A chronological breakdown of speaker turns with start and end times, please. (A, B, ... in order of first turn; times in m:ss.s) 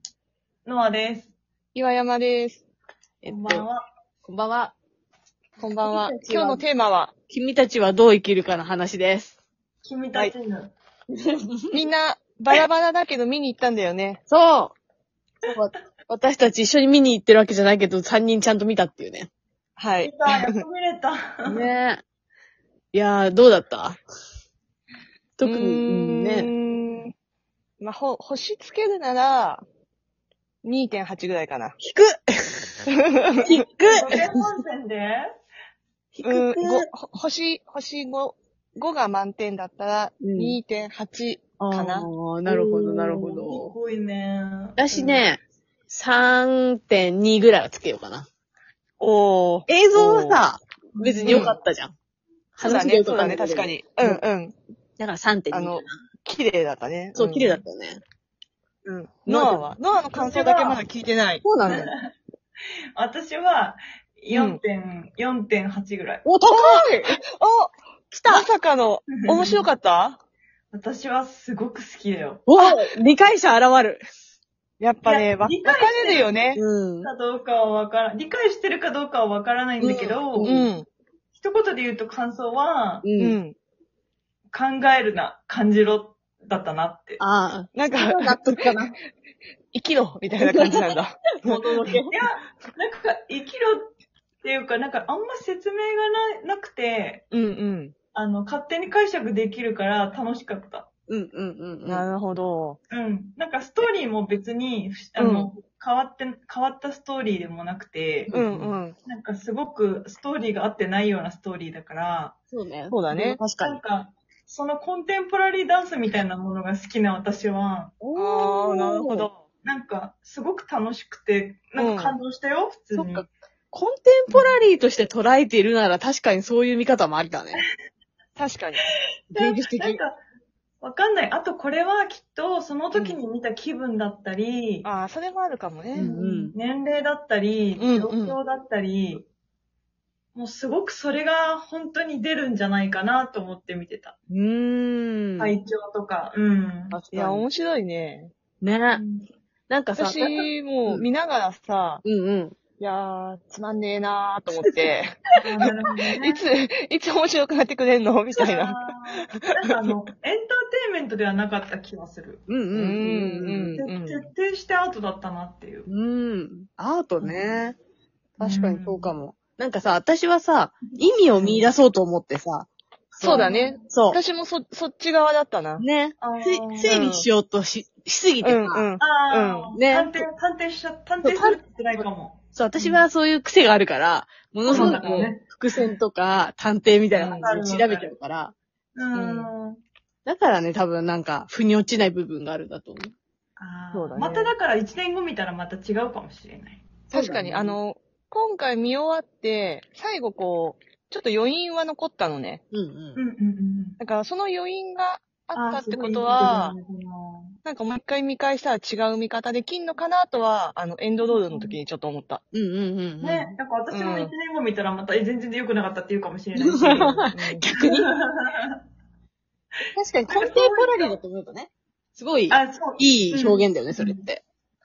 0:00.7-0:01.3 A
0:01.8-0:02.6 B
0:03.2-0:03.6 C
0:03.3-0:03.8 A
0:04.3-0:04.7 C
0:05.6-0:07.1 B
0:05.8-0:06.6 C
0:07.3-0:09.3 C
0:09.8-0:10.7 A
0:11.7-0:14.2 B
0:14.3-0:14.8 C
0:15.5-0:19.3 C
0:19.8-0:20.6 B
0:20.0-0:21.7 A
0:21.5-0:22.0 C
0:22.9-0:24.0 C
0:25.4-0:26.5 C
0:25.4-0:27.1 B
0:27.8-0:29.6 B
0:30.6-0:31.8 B
0:31.8-0:32.8 C
0:33.0-0:33.3 B
0:33.4-0:34.1 C
0:33.8-0:35.2 A
0:36.2-0:36.9 C
0:36.2-0:43.4 B
0:40.2-0:40.6 C
0:41.6-0:43.7 C
0:43.4-0:45.2 A
0:44.8-0:48.3 C
0:49.0-0:50.4 B
0:49.7-0:51.9 C
0:51.0-0:51.6 A
0:51.3-0:51.6 B
0:52.6-0:54.2 C
0:52.6-0:54.6 B
0:55.0-0:55.9 C
0:55.5-0:57.6 B
0:57.2-0:58.0 C
0:58.8-1:01.8 B
0:59.3-0:59.6 C
1:00.1-1:00.8 A
1:01.4-1:01.9 C
1:01.7-1:02.0 A
1:03.0-1:06.3 A
1:04.3-1:04.6 B
1:06.2-1:07.1 C
1:06.5-1:07.7 B
1:08.1-1:08.5 C
1:08.3-1:10.2 B
1:09.2-1:09.7 A
1:10.7-1:12.5 A
1:12.5-1:14.0 C
1:14.8-1:16.6 B
1:15.0-1:16.3 A
1:16.6-1:17.1 C
1:17.0-1:20.5 A
1:19.8-1:20.7 C
1:20.4-1:20.9 B
1:21.4-1:23.1 A
1:23.0-1:23.4 C
1:23.2-1:23.6 B
1:24.5-1:27.2 A
1:27.2-1:29.0 C
1:27.8-1:28.6 B
1:29.7-1:32.0 B
1:30.5-1:32.2 C
1:31.9-1:37.2 A
1:37.3-1:37.9 B
1:38.2-1:40.9 A
1:41.1-1:42.0 C
1:41.9-1:42.8 B
1:42.9-1:48.3 A
1:45.2-1:45.5 B
1:48.3-1:48.8 C
1:48.3-1:49.0 B
1:49.0-1:52.4 A
1:52.5-1:53.8 C
1:52.9-1:53.4 B
1:53.5-1:58.0 A
1:58.0-1:59.3 C
1:58.2-1:59.4 B
1:59.6-2:03.3 A
2:01.8-2:02.2 B
2:02.9-2:07.6 C
2:04.3-2:04.6 A
2:08.4-2:08.8 B
2:09.3-2:10.2 A
2:09.3-2:10.0 C
2:10.8-2:14.9 A
2:12.9-2:13.2 B
2:14.8-2:16.1 B
2:15.9-2:19.3 A
2:16.0-2:16.6 C
2:17.8-2:18.4 B
2:20.4-2:24.2 A
2:24.3-2:25.6 C
2:25.4-2:27.0 A
2:26.9-2:27.5 C
2:27.1-2:28.3 B
2:28.6-2:29.0 C
2:28.9-2:29.3 A
2:29.7-2:31.1 C
2:30.0-2:32.0 B
2:32.0-2:32.6 C
2:32.8-2:35.2 B
2:34.6-2:34.9 C
2:35.4-2:36.5 A
2:36.2-2:39.9 B
2:38.3-2:42.4 A
2:42.5-2:43.8 C
2:42.7-2:44.3 B
2:43.8-2:45.9 A
2:45.9-2:47.8 C
2:47.2-2:47.6 A
2:48.4-2:54.2 C
2:48.4-2:49.2 A
2:51.4-2:51.7 A
2:53.2-2:55.8 B
2:53.3-2:53.9 A
2:55.8-2:58.9 C
2:56.2-2:57.0 A
2:56.9-2:57.3 B
2:58.4-2:59.7 B
2:59.0-3:03.1 A
2:59.8-3:00.3 C
3:01.2-3:08.6 C
3:04.7-3:06.0 A
3:04.7-3:05.3 B
3:07.1-3:08.1 A
3:07.2-3:07.5 B
3:09.0-3:09.8 A
3:09.1-3:09.5 B
3:10.3-3:13.1 C
3:13.6-3:16.9 A
3:13.9-3:14.5 B
3:17.1-3:17.8 C
3:17.1-3:22.6 B
3:22.7-3:23.2 C
3:23.2-3:24.0 A
3:24.0-3:26.8 B
3:25.6-3:27.6 A
3:27.6-3:32.4 B
3:31.2-3:31.8 A
3:32.5-3:33.5 C
3:33.2-3:38.8 A
3:33.9-3:34.3 B
3:36.6-3:38.2 C
3:37.3-3:37.6 B
3:39.9-3:44.4 C
3:40.3-3:41.2 A
3:42.5-3:44.2 A